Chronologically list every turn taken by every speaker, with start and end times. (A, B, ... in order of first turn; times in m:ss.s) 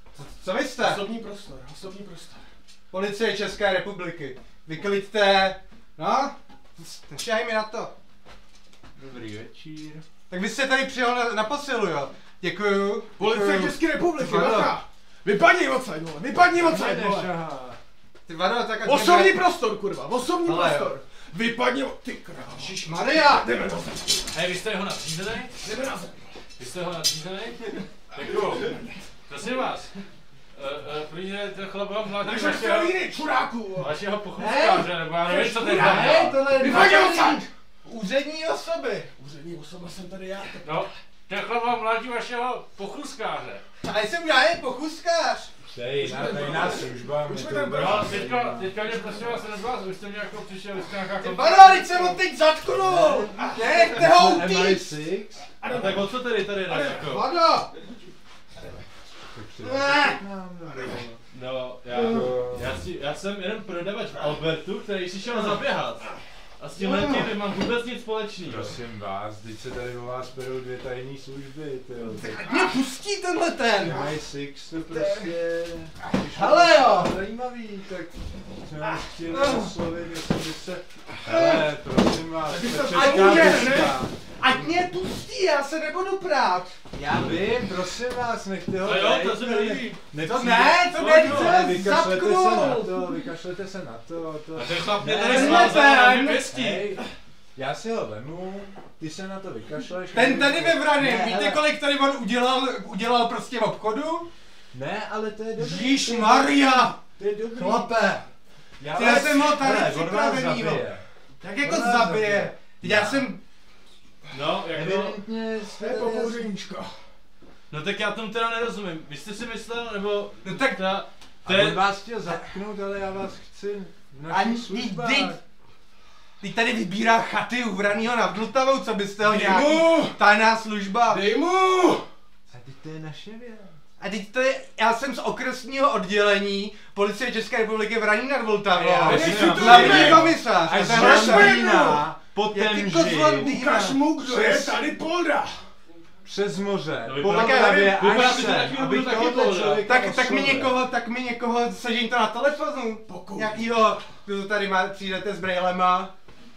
0:00.2-0:01.1 A
0:00.8-0:02.5 B
0:02.9-0:07.9 A
0:09.0-0:10.0 C
0:10.3-0:14.8 A
0:13.2-0:17.3 B
0:16.5-0:17.8 C
0:18.3-0:19.4 A
0:18.8-0:24.2 B
0:20.4-0:21.0 A
0:22.5-0:23.7 A
0:24.3-0:25.6 D
0:25.6-0:26.4 B
0:26.6-0:28.8 D
0:28.2-0:29.1 B
0:29.3-0:33.0 D
0:32.2-0:34.0 B
0:33.8-0:36.2 D
0:34.4-0:39.1 A
0:35.6-0:37.0 C
0:36.5-0:37.5 B
0:39.2-0:40.9 B
0:40.6-0:43.6 D
0:43.8-0:45.5 A
0:45.7-0:48.8 C
0:46.0-0:48.2 B
0:47.7-0:52.1 D
0:51.2-0:55.0 A
0:52.6-0:55.5 C
0:53.4-0:54.1 B
0:55.6-0:56.1 B
0:55.7-0:57.3 D
0:56.7-0:57.3 B
0:57.0-0:57.7 A
0:59.3-1:01.2 C
1:01.3-1:08.8 D
1:01.9-1:02.8 C
1:06.8-1:07.2 A
1:08.4-1:12.5 C
1:12.2-1:12.7 B
1:12.4-1:14.1 A
1:13.8-1:24.7 C
1:16.1-1:17.1 A
1:19.3-1:19.7 A
1:22.5-1:24.0 B
1:22.9-1:27.4 A
1:27.0-1:37.0 C
1:28.8-1:30.0 D
1:30.2-1:32.9 A
1:30.9-1:31.7 D
1:34.6-1:36.9 D
1:35.1-1:36.5 A
1:37.6-1:41.6 C
1:40.1-1:44.3 A
1:44.7-1:46.6 C
1:45.6-1:47.0 A
1:47.2-1:48.0 C
1:47.5-1:48.3 A
1:48.8-1:51.0 C
1:48.9-1:50.9 A
1:51.4-1:53.4 A
1:51.6-1:53.3 C
1:54.3-1:55.2 D
1:54.7-1:56.6 C
1:55.6-1:57.0 B
1:57.7-2:01.8 D
2:00.4-2:00.8 A
2:01.4-2:05.4 C
2:04.3-2:05.4 A
2:06.4-2:11.3 A
2:09.2-2:10.2 B
2:11.1-2:12.1 B
2:12.5-2:13.8 C
2:14.0-2:24.0 A
2:18.7-2:23.6 C
2:19.0-2:22.0 B
2:19.1-2:20.1 D
2:23.3-2:25.7 B
2:24.1-2:24.8 C
2:26.2-2:30.8 C
2:27.0-2:29.9 D
2:27.2-2:28.4 A
2:29.8-2:36.1 A
2:33.1-2:34.1 B